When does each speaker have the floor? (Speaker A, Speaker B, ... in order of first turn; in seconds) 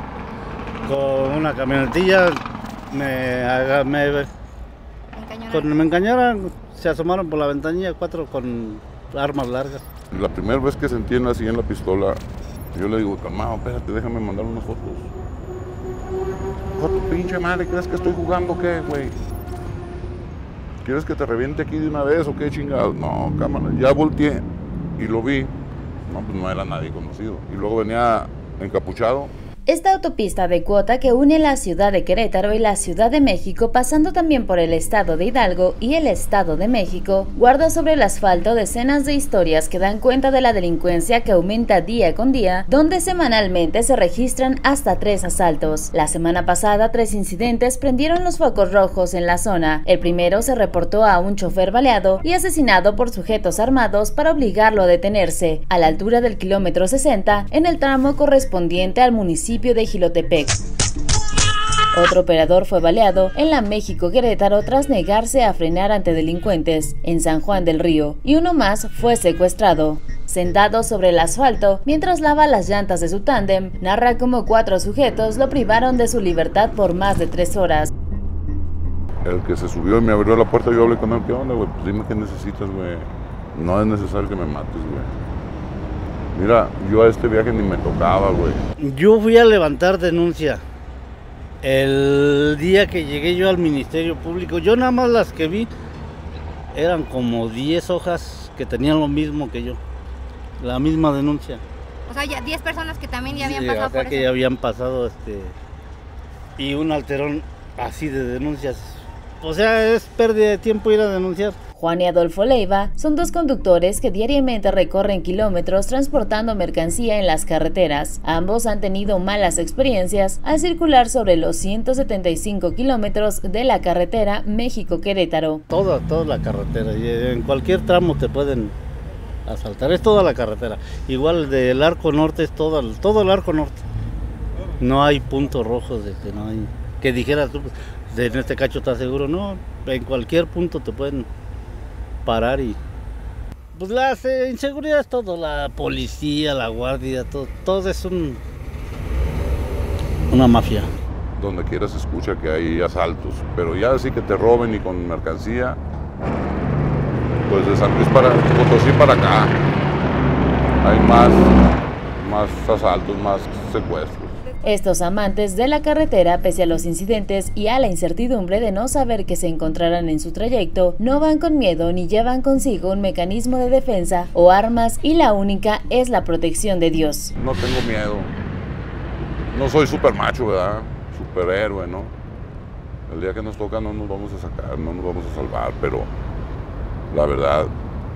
Speaker A: 0.8-4.3, 5.5-9.8, 88.8-90.6, 91.6-95.7, 96.7-99.8, 100.6-101.6, 103.3-105.6, 106.6-111.6, 125.7-128.8, 129.5-133.8, 134.8-141.3, 142.2-142.8, 143.7-148.4, 150.3-150.9
Speaker B: 5.1-5.7, 102.1-104.3
Speaker C: 10.1-12.2, 12.7-15.1, 16.8-19.1, 20.8-24.5, 25.0-25.6, 26.1-29.3, 79.2-85.1, 86.3-88.6, 151.4-155.8, 157.5-159.6, 160.8-161.6, 162.2-164.4, 177.4-178.3, 179.5-182.1, 183.1-186.1, 187.1-187.7
Speaker D: 29.7-60.6, 61.9-77.9, 111.8-125.6, 164.6-177.3